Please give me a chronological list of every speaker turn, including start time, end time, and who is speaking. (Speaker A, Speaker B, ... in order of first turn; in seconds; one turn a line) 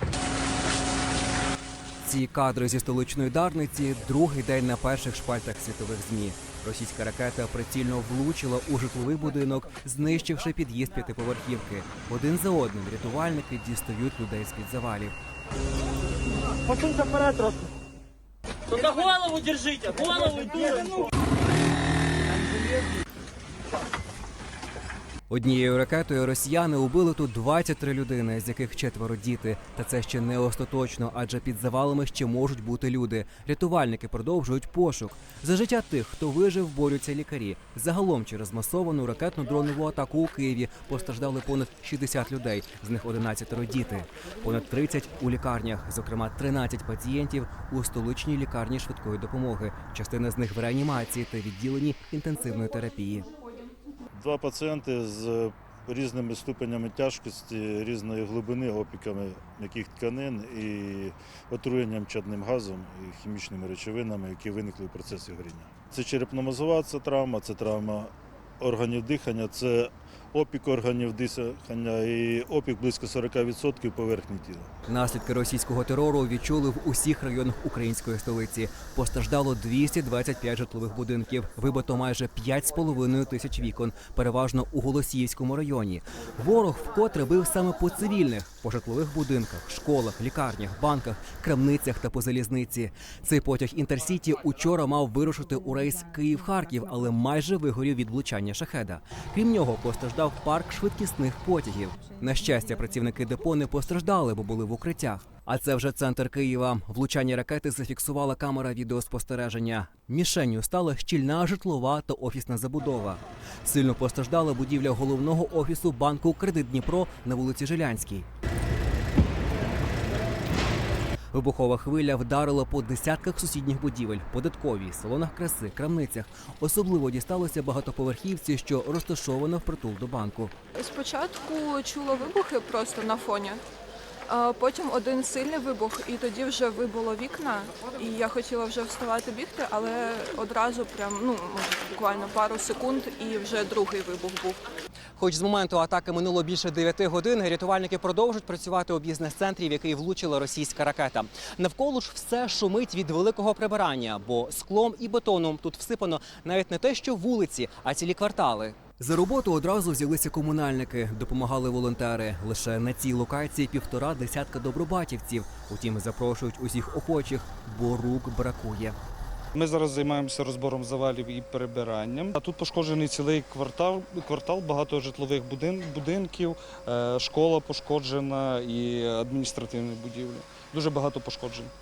Speaker A: 2.0-15.1
Speaker B: 16.7-17.5
Speaker B: 18.7-20.8
Speaker A: 25.3-53.3
Speaker C: 54.2-74.7
Speaker A: 74.9-118.3
Speaker A: 121.3-130.5
Speaker D: 130.8-133.6
Speaker D: 134.3-144.6
Speaker A: 145.2-168.9
Speaker E: 169.6-181.6